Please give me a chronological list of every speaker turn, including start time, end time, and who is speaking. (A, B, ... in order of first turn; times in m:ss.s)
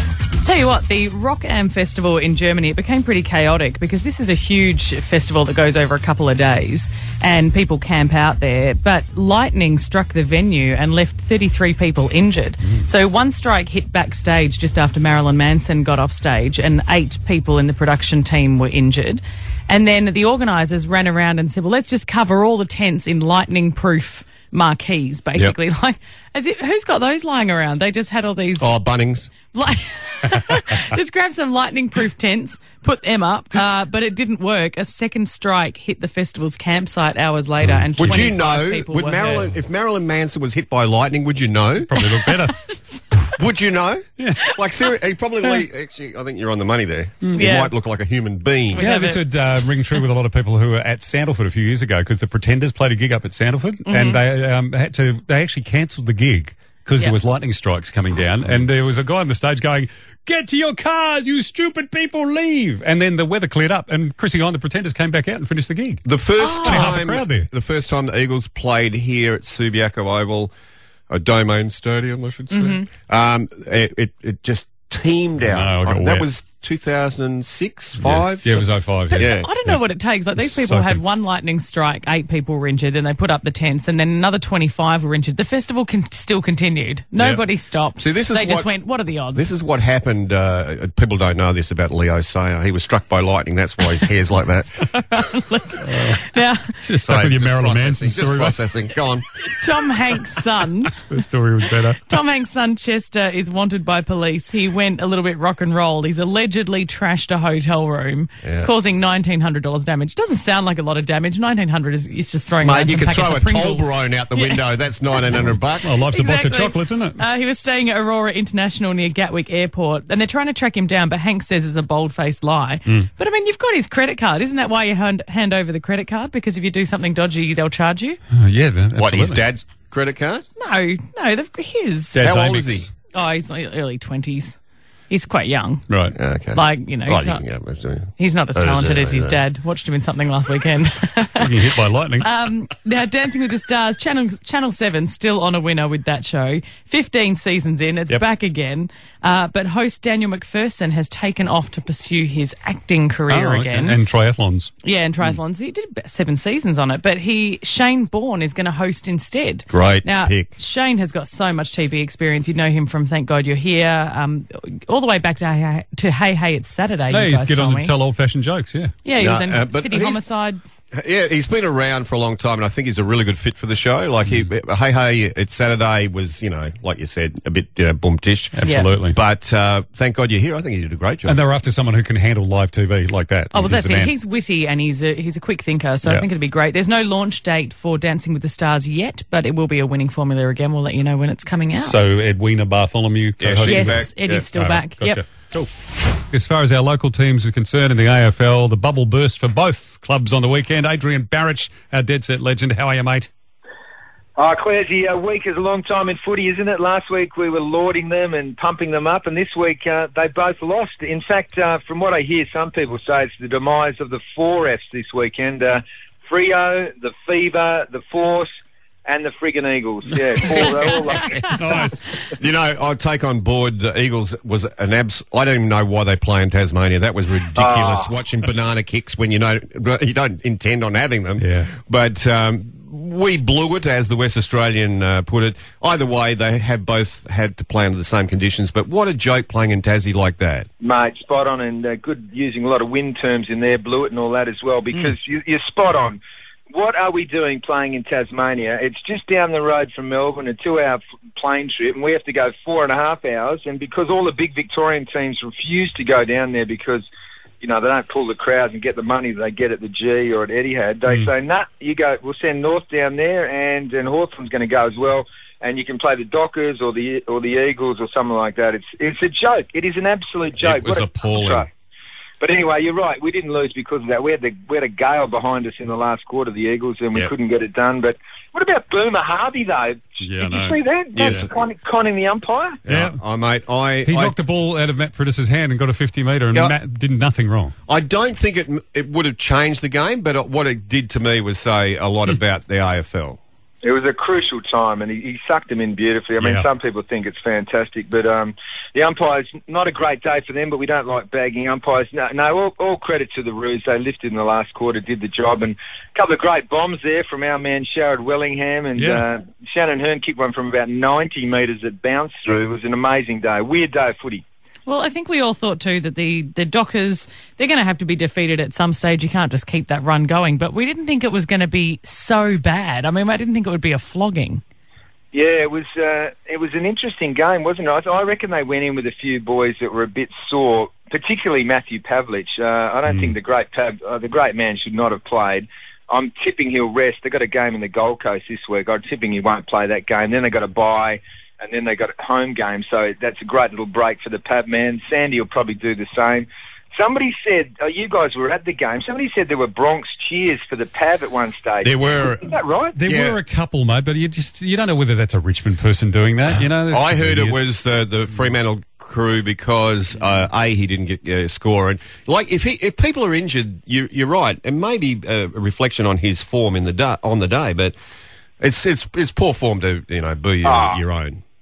0:00.4-0:28.7 A
0:28.6-0:29.3 B
0:29.5-0:39.5 A
0:37.6-0:38.3 C
0:38.0-0:41.9 B
0:41.8-0:42.6 C
0:42.0-0:43.0 A
0:43.4-0:48.8 B
0:44.2-0:44.4 C
0:47.2-0:47.5 C
0:47.3-0:47.7 A
0:48.7-0:49.2 A
0:48.8-1:06.0 C
0:53.9-0:54.2 A
1:06.0-1:10.5 B
1:06.4-1:06.9 A
1:06.6-1:07.5 C
1:11.1-1:19.5 B
1:12.5-1:12.9 A
1:15.4-1:16.3 C
1:18.0-1:19.8 C
1:19.1-1:29.5 A
1:20.4-1:21.0 C
1:27.2-1:27.4 C
1:28.0-1:34.7 B
1:34.9-1:36.7 A
1:35.8-1:36.2 C
1:36.8-1:38.6 C
1:37.0-1:39.2 B
1:39.5-1:41.0 A
1:41.0-1:42.0 C
1:42.0-1:54.8 A
1:48.4-1:48.7 B
1:52.6-1:56.0 B
1:55.3-1:57.2 C
1:56.0-2:08.2 A
2:08.3-2:09.4 C
2:09.0-2:10.4 B
2:10.6-2:12.2 A
2:12.1-2:12.9 C
2:12.2-2:12.9 B
2:13.1-2:14.6 A
2:15.1-2:15.9 A
2:15.9-2:16.1 C
2:16.1-2:19.4 B
2:16.5-2:17.4 A
2:18.2-2:34.0 A
2:21.4-2:22.3 C
2:33.3-2:34.7 C
2:34.8-2:47.9 A
2:39.7-2:40.5 B
2:47.1-2:48.9 C
2:49.0-2:50.6 A
2:49.2-2:50.2 B
2:50.9-3:01.4 B
2:58.5-2:59.2 C
2:58.6-2:58.9 A
3:01.2-3:04.1 C
3:03.5-3:12.0 A
3:11.8-3:15.7 C
3:13.4-3:14.4 B
3:13.7-3:15.2 A
3:16.3-3:23.3 C
3:24.4-3:38.5 D
3:39.0-3:42.0 D
3:41.4-3:42.0 C
3:42.4-4:00.7 B
3:47.6-3:48.1 D
3:51.4-3:51.7 C
4:00.8-4:06.2 D
4:06.7-4:17.0 D
4:17.6-4:31.7 D
4:30.6-4:31.7 B
4:32.4-4:42.8 D
4:40.2-4:41.4 C
4:41.2-4:41.4 B
4:42.9-4:43.2 C
4:42.9-4:44.4 B
4:44.0-4:47.7 C
4:47.9-4:53.4 B
4:53.8-5:14.4 D
4:56.4-4:56.7 C
5:09.0-5:09.2 C
5:14.8-5:24.6 A
5:25.3-5:53.0 D
5:33.1-5:33.3 C
5:51.8-5:52.5 B
5:53.0-5:57.7 C
5:53.1-5:53.4 B
5:56.9-6:07.9 B
6:08.6-6:11.4 B
6:10.6-6:11.0 D